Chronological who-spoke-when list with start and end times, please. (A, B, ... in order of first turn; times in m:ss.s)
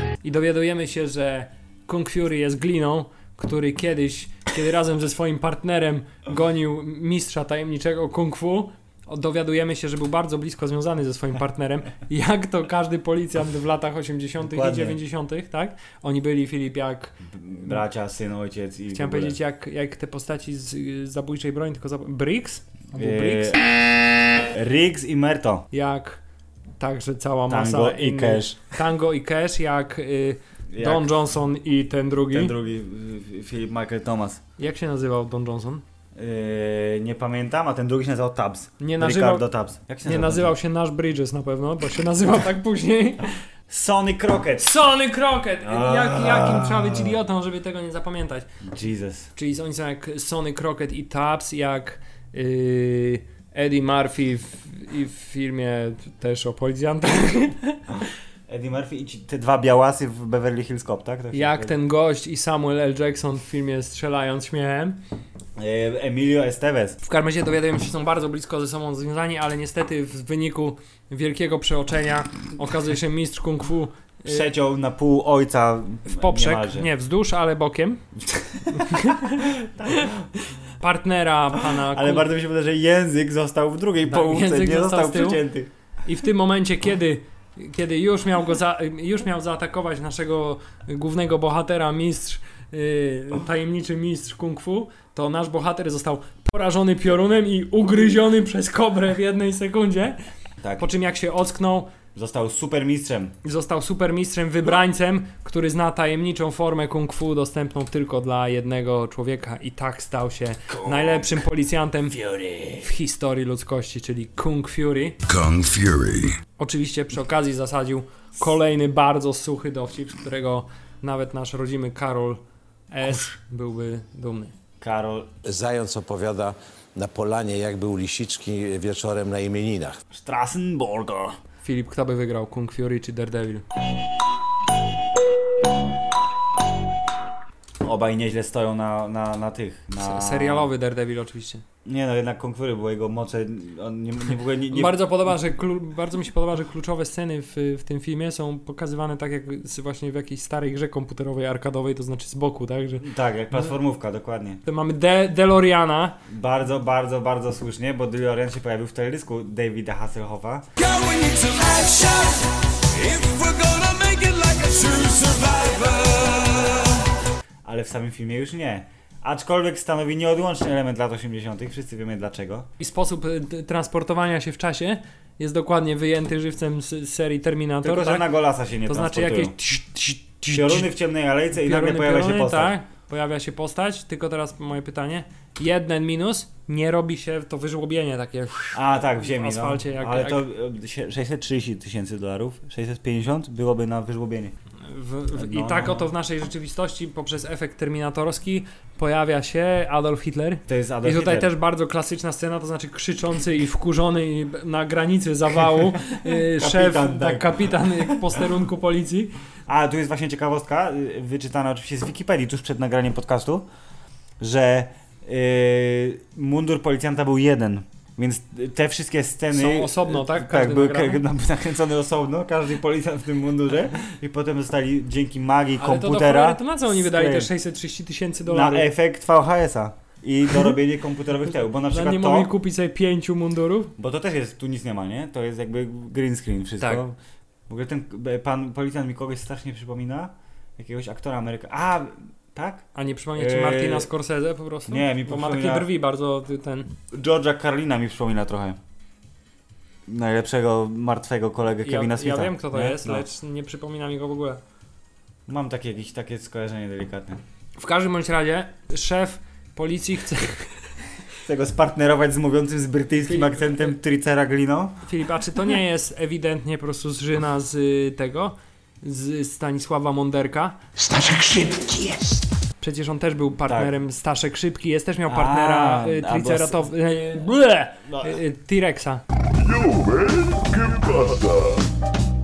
0:00.2-0:17.2 A
0:14.4-0:15.0 B
0:17.3-0:19.4 B
0:18.9-0:23.5 A
0:23.0-0:23.6 B
0:24.4-0:25.7 B
0:25.7-0:26.2 A
0:26.8-0:32.5 A
0:27.5-0:28.6 B
0:30.7-0:31.2 B
0:32.3-0:34.4 B
0:34.6-0:35.8 A
0:36.2-0:40.5 B
0:38.8-0:39.5 A
0:40.0-0:43.3 A
0:43.7-0:44.7 B
0:44.6-0:48.5 A
0:45.6-0:47.2 B
0:48.6-0:49.3 B
0:49.4-0:57.8 A
0:58.5-1:01.8 B
1:01.3-1:05.0 A
1:05.6-1:07.0 B
1:07.0-1:14.5 A
1:14.3-1:16.9 B
1:16.1-1:18.0 A
1:18.2-1:20.2 B
1:18.7-1:22.3 A
1:21.7-1:25.7 B
1:24.1-1:25.4 A
1:26.0-1:40.2 A
1:40.6-1:40.9 B
1:40.8-1:41.9 A
1:42.2-1:43.4 B
1:43.4-1:52.2 A
1:50.7-1:51.4 B
1:52.1-1:52.8 B
1:52.8-1:55.2 A
1:55.3-1:56.4 C
1:56.6-2:04.5 A
2:04.8-2:05.3 B
2:05.4-2:10.0 D
2:10.1-2:11.4 B
2:11.6-2:13.6 A
2:17.8-2:20.7 B
2:20.0-2:21.6 A
2:21.8-2:25.3 B
2:24.7-2:33.1 A
2:33.0-2:34.6 B
2:34.6-2:36.2 A
2:36.3-2:40.7 B
2:40.8-2:47.0 C
2:47.6-2:52.7 B
2:52.8-2:58.3 A
2:57.8-2:59.6 B
2:58.9-3:00.9 A
3:00.5-3:02.8 B
3:01.5-3:10.4 A
3:08.7-3:14.6 B
3:14.9-3:29.3 A
3:15.4-3:16.1 B
3:20.7-3:21.5 B
3:26.4-3:28.4 B
3:29.7-3:33.7 B
3:34.4-3:47.5 B
3:39.5-3:41.2 A
3:45.8-3:48.9 A
3:48.4-3:52.5 B
3:51.9-3:53.9 A
3:54.0-3:57.2 B
3:57.7-4:04.1 B
4:03.0-4:06.9 A
4:04.9-4:05.9 B
4:07.1-4:08.8 B
4:10.1-4:13.3 B
4:11.8-4:14.6 A
4:15.5-4:17.4 B
4:17.8-4:20.7 A
4:21.4-4:25.0 B
4:23.3-4:24.0 A
4:25.1-4:30.8 A
4:31.8-4:32.1 D
4:32.8-4:39.2 A
4:33.7-4:33.9 B
4:35.3-4:36.9 B
4:38.1-4:38.4 B
4:40.9-4:41.3 C